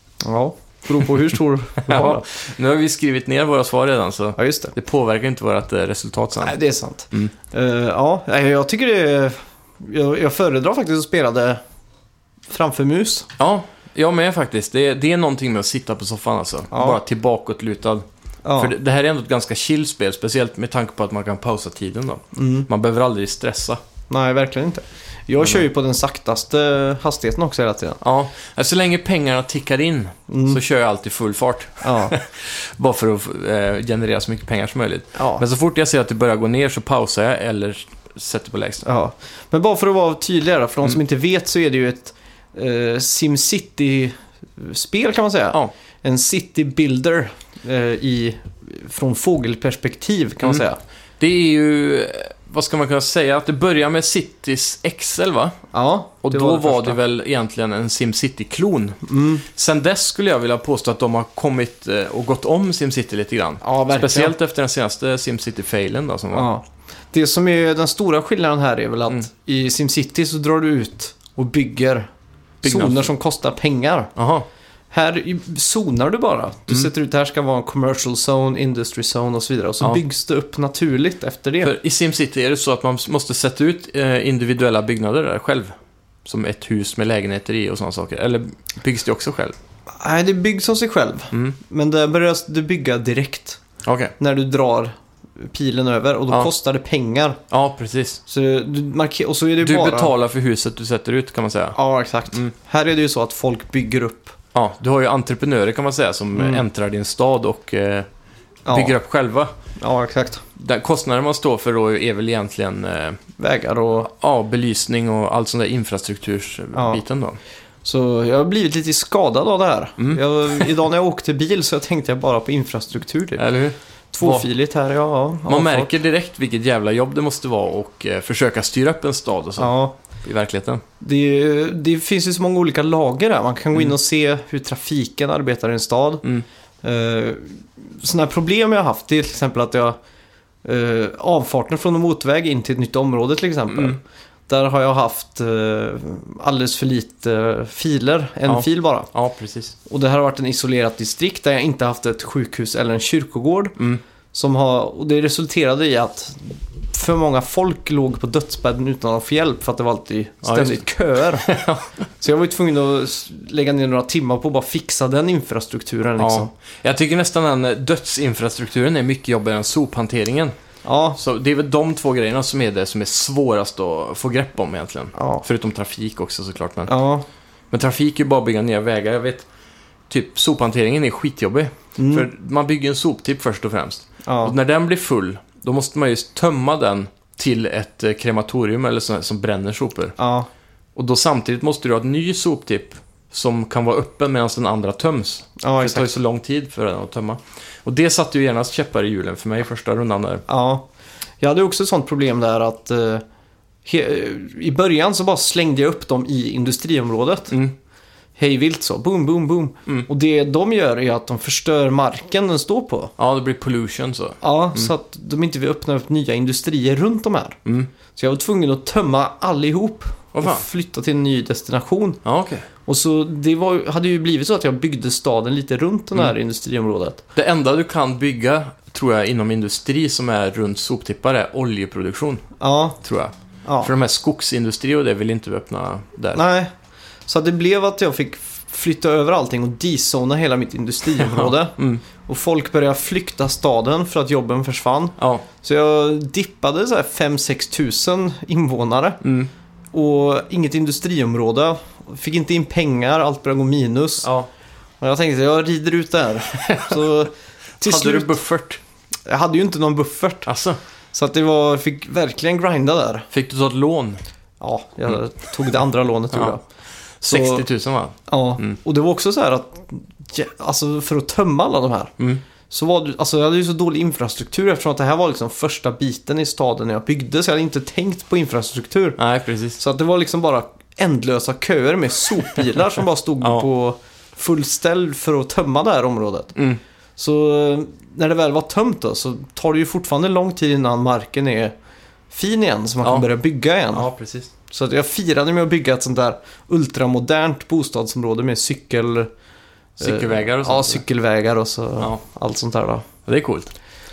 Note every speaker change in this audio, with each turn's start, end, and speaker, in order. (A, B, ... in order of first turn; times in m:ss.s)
0:00.2-0:02.2 A
0:01.8-0:06.6 B
0:04.4-0:04.7 A
0:06.4-0:11.6 A
0:12.5-0:13.3 A
0:13.4-0:18.0 B
0:16.7-0:17.0 A
0:18.4-0:18.7 A
0:18.6-0:23.8 B
0:22.4-0:22.7 A
0:24.1-0:28.0 A
0:28.0-0:38.8 B
0:30.3-0:30.6 A
0:31.8-0:32.2 A
0:35.2-0:35.4 A
0:38.8-0:50.8 A
0:51.2-0:55.6 B
0:55.7-0:57.0 A
0:56.2-1:06.5 B
0:59.1-0:59.4 A
1:03.6-1:04.4 A
1:06.3-1:12.1 A
1:12.6-1:13.1 B
1:12.6-1:14.1 A
1:14.2-1:14.5 B
1:14.9-1:21.7 A
1:21.6-1:25.7 B
1:26.2-1:29.6 B
1:30.0-1:33.6 A
1:33.8-1:34.1 B
1:34.2-1:37.4 A
1:37.5-1:38.2 B
1:38.3-1:40.1 A
1:39.6-1:41.8 B
1:41.8-1:44.4 A
1:44.5-1:48.1 B
1:46.3-1:46.6 A
1:48.7-1:49.0 A
1:48.7-1:49.5 B
1:49.8-1:50.4 A
1:50.6-1:53.2 B
1:53.4-1:54.1 A
1:54.0-1:57.4 B
1:56.7-1:57.0 A
1:57.8-2:03.4 A
2:00.0-2:00.7 B
2:03.4-2:04.5 B
2:04.1-2:05.9 A
2:05.5-2:10.8 B
2:09.6-2:10.0 A
2:11.0-2:16.3 A
2:16.8-2:20.0 A
2:20.6-2:29.1 A
2:23.7-2:24.0 B
2:28.5-2:29.8 B
2:29.9-2:33.8 A
2:33.8-2:34.0 B
2:34.3-2:41.5 A
2:40.4-2:41.9 B
2:42.2-2:46.5 A
2:46.2-2:50.6 B
2:50.8-2:51.2 A
2:51.2-2:56.9 B
2:55.2-2:55.4 A
2:56.9-2:57.2 A
2:57.7-2:59.5 B
3:00.1-3:10.2 B
3:02.0-3:02.3 A
3:04.2-3:04.6 A
3:10.2-3:10.5 A
3:11.0-3:20.4 B
3:15.6-3:16.1 A
3:20.5-3:20.9 A
3:21.4-3:23.2 A
3:23.8-3:27.6 A
3:27.5-3:27.8 B
3:28.4-3:33.1 A
3:33.2-3:34.9 B
3:34.4-3:37.6 A
3:37.6-3:37.9 B
3:38.2-3:42.2 A
3:40.3-3:40.6 B
3:42.2-3:42.7 B
3:42.9-3:47.2 A
3:47.4-3:52.4 B
3:52.6-3:53.0 A
3:53.0-3:56.4 B
3:53.6-3:53.9 A
3:56.3-3:56.7 A
3:57.3-4:09.2 A
4:01.2-4:02.0 B
4:05.2-4:05.4 B
4:09.2-4:09.5 B
4:09.9-4:14.3 A
4:14.2-4:14.5 B
4:15.0-4:18.4 A
4:16.5-4:17.0 B
4:17.8-4:18.8 B
4:19.3-4:20.5 A
4:20.4-4:20.8 B
4:21.1-4:23.3 A
4:23.3-4:24.2 B
4:24.6-4:26.6 A
4:27.2-4:28.8 B
4:27.3-4:27.7 A
4:28.3-4:32.2 A
4:32.7-4:39.2 A
4:39.2-4:39.8 B
4:39.8-4:46.6 A
4:47.2-4:51.7 A
4:52.3-4:54.1 A
4:53.9-4:54.5 B
4:54.7-4:59.3 A
5:00.0-5:01.0 B
5:00.0-5:03.1 A
5:03.3-5:03.7 B